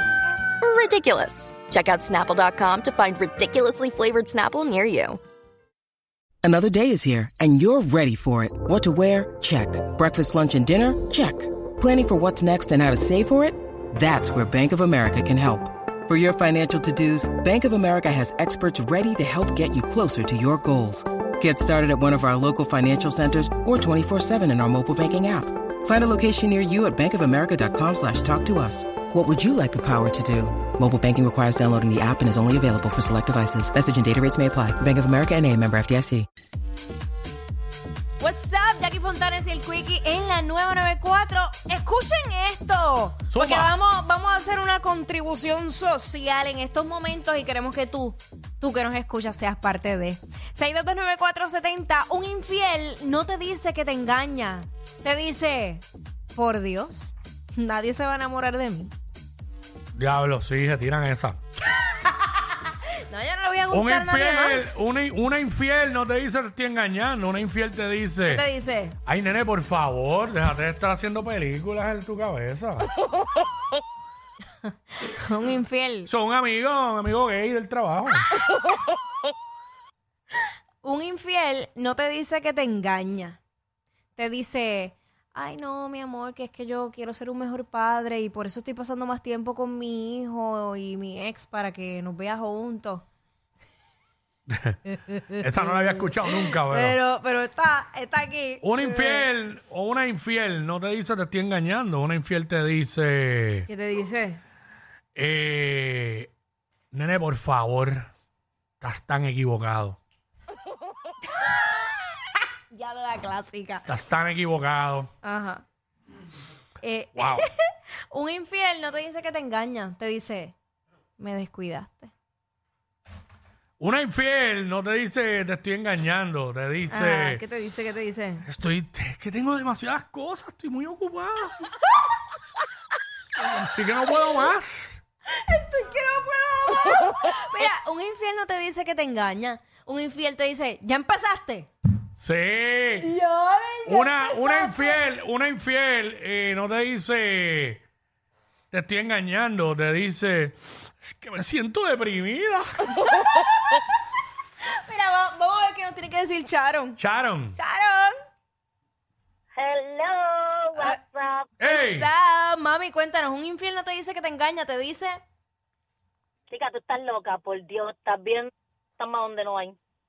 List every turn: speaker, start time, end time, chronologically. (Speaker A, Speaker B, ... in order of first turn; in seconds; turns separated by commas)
Speaker A: 0.6-5.2, Speaker B: 6.4-36.3, Speaker C: 38.2-58.9, Speaker D: 43.3-43.7, Speaker D: 60.0-61.4, Speaker C: 61.8-64.8, Speaker D: 63.7-68.5, Speaker C: 68.3-69.0, Speaker D: 69.1-72.9, Speaker C: 75.0-76.1, Speaker D: 76.1-78.3, Speaker C: 80.8-83.4, Speaker C: 84.2-93.0, Speaker D: 94.5-94.8, Speaker D: 95.4-97.0, Speaker C: 96.2-99.2, Speaker D: 98.6-103.7, Speaker C: 103.7-104.4, Speaker D: 105.2-106.3, Speaker D: 106.9-108.1, Speaker D: 108.8-110.0, Speaker C: 112.7-113.9, Speaker D: 113.9-115.1, Speaker C: 115.2-115.6, Speaker C: 116.8-120.5, Speaker D: 117.2-117.5, Speaker C: 121.2-122.1, Speaker D: 123.8-127.4, Speaker C: 126.9-128.4, Speaker D: 128.5-131.6, Speaker D: 133.4-135.0, Speaker C: 135.3-141.7, Speaker D: 142.2-143.1, Speaker C: 143.0-145.0, Speaker D: 143.9-147.8, Speaker D: 148.7-152.7, Speaker C: 153.0-153.8, Speaker C: 154.7-157.0, Speaker D: 157.0-157.6, Speaker C: 157.6-158.1, Speaker E: 159.5-161.5, Speaker D: 161.6-162.1, Speaker C: 161.6-165.2, Speaker E: 166.5-169.8